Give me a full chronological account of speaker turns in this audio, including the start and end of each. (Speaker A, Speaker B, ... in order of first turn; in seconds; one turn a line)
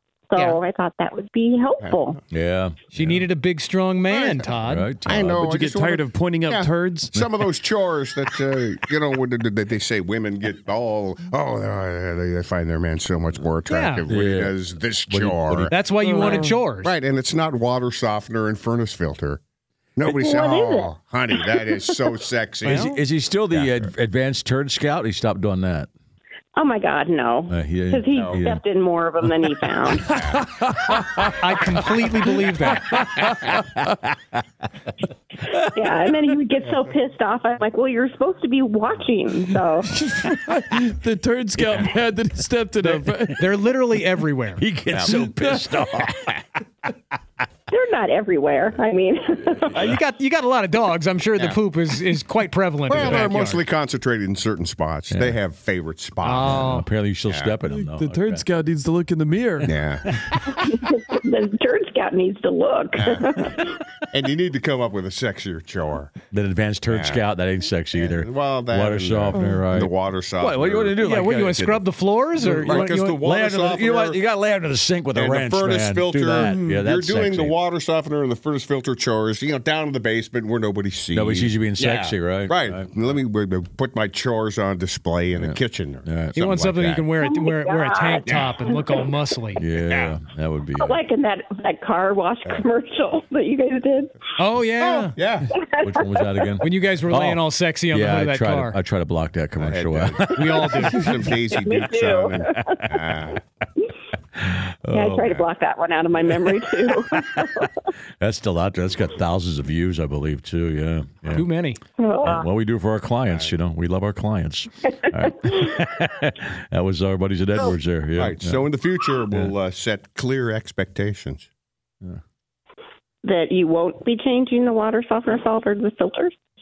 Speaker A: 0.3-2.2
Speaker B: 2.3-3.2
Speaker C: 2.9-4.9
Speaker D: 4.1-4.5
Speaker B: 4.7-5.5
Speaker D: 5.0-19.4
Speaker E: 5.3-7.1
Speaker C: 13.7-14.0
Speaker B: 14.1-14.5
Speaker B: 15.1-15.8
Speaker C: 15.7-16.9
Speaker E: 16.0-16.6
Speaker D: 20.0-22.9
Speaker A: 20.0-21.7
Speaker B: 22.6-25.9
Speaker C: 22.7-22.9
Speaker D: 23.5-23.9
Speaker A: 26.6-30.2
Speaker B: 27.5-28.6
Speaker D: 30.1-30.4
Speaker E: 30.1-31.3
Speaker C: 31.4-33.0
Speaker E: 32.9-33.6
Speaker A: 35.6-39.9
Speaker E: 39.9-43.4
Speaker C: 43.4-44.6
Speaker B: 44.6-46.5
Speaker D: 44.9-45.1
Speaker A: 47.7-49.9
Speaker C: 49.7-53.6
Speaker D: 52.9-56.7
Speaker B: 55.1-55.4
Speaker C: 56.2-56.9
Speaker B: 56.4-58.4
Speaker D: 57.3-57.5
Speaker E: 57.8-59.7
Speaker D: 59.6-60.2
Speaker B: 60.1-60.4
Speaker A: 60.5-63.8
Speaker D: 63.0-66.1
Speaker B: 66.3-71.8
Speaker D: 66.9-67.2
Speaker D: 67.9-71.0
Speaker C: 71.0-73.2
Speaker B: 72.4-77.5
Speaker D: 72.6-74.2
Speaker D: 75.1-87.0
Speaker E: 76.4-76.8
Speaker B: 81.1-82.9
Speaker B: 85.4-86.4
Speaker C: 86.3-89.6
Speaker A: 87.2-89.0
Speaker B: 89.5-91.0
Speaker A: 90.8-94.1
Speaker C: 94.4-95.2
Speaker D: 94.8-95.5
Speaker A: 95.5-96.6
Speaker B: 95.8-101.1
Speaker C: 96.6-98.8
Speaker D: 99.6-103.4
Speaker C: 100.3-101.1
Speaker A: 101.5-102.9
Speaker B: 104.4-105.4
Speaker A: 104.9-107.9
Speaker B: 108.2-111.4
Speaker C: 111.3-111.8
Speaker A: 112.0-112.5
Speaker B: 112.2-118.6
Speaker A: 115.4-115.7
Speaker D: 118.1-121.5
Speaker A: 123.2-126.3